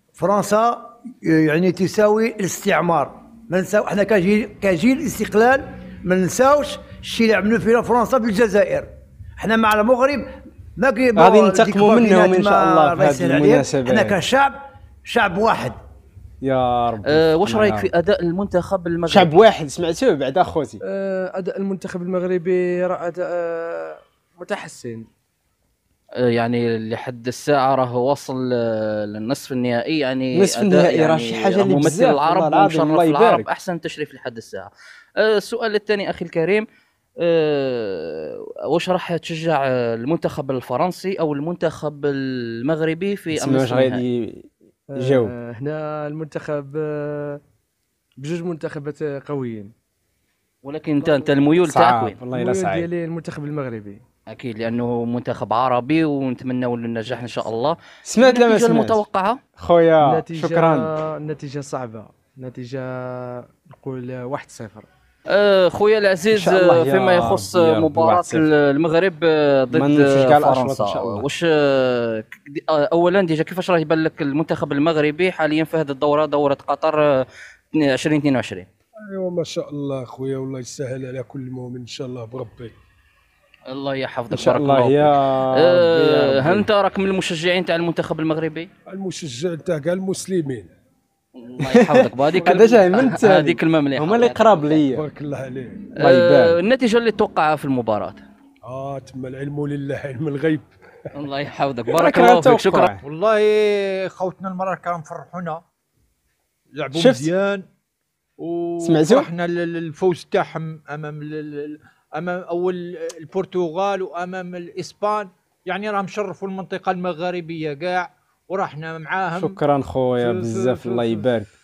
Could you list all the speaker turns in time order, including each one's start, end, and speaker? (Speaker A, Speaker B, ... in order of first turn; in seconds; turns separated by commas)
Speaker A: 0.1-15.8, Speaker B: 11.2-14.2, Speaker B: 16.4-17.9, Speaker C: 17.1-19.4, Speaker B: 19.1-20.8, Speaker D: 20.8-25.1, Speaker C: 26.3-34.7, Speaker B: 30.3-33.5, Speaker C: 35.2-36.6, Speaker C: 37.2-44.0, Speaker B: 43.3-45.3, Speaker D: 44.9-47.4, Speaker D: 48.2-49.7, Speaker C: 50.6-52.2, Speaker B: 51.6-52.9, Speaker D: 52.4-54.0, Speaker C: 54.3-59.4, Speaker B: 58.0-59.0, Speaker B: 59.6-60.9, Speaker D: 60.0-64.9, Speaker C: 65.3-77.3, Speaker B: 66.3-68.5, Speaker B: 69.7-71.2, Speaker C: 77.8-78.7, Speaker E: 79.1-82.8, Speaker C: 83.7-85.2, Speaker B: 84.3-86.7, Speaker C: 85.7-88.7, Speaker E: 88.9-90.7, Speaker C: 91.4-94.8, Speaker B: 91.8-95.0, Speaker E: 94.9-95.9, Speaker B: 96.0-96.6, Speaker C: 96.0-98.2, Speaker E: 98.7-100.7, Speaker C: 101.2-102.9, Speaker B: 101.9-103.0, Speaker F: 103.0-105.6, Speaker F: 106.7-107.6, Speaker B: 107.0-107.3, Speaker F: 108.4-119.6, Speaker B: 108.8-109.3, Speaker B: 119.3-121.5, Speaker F: 120.2-121.2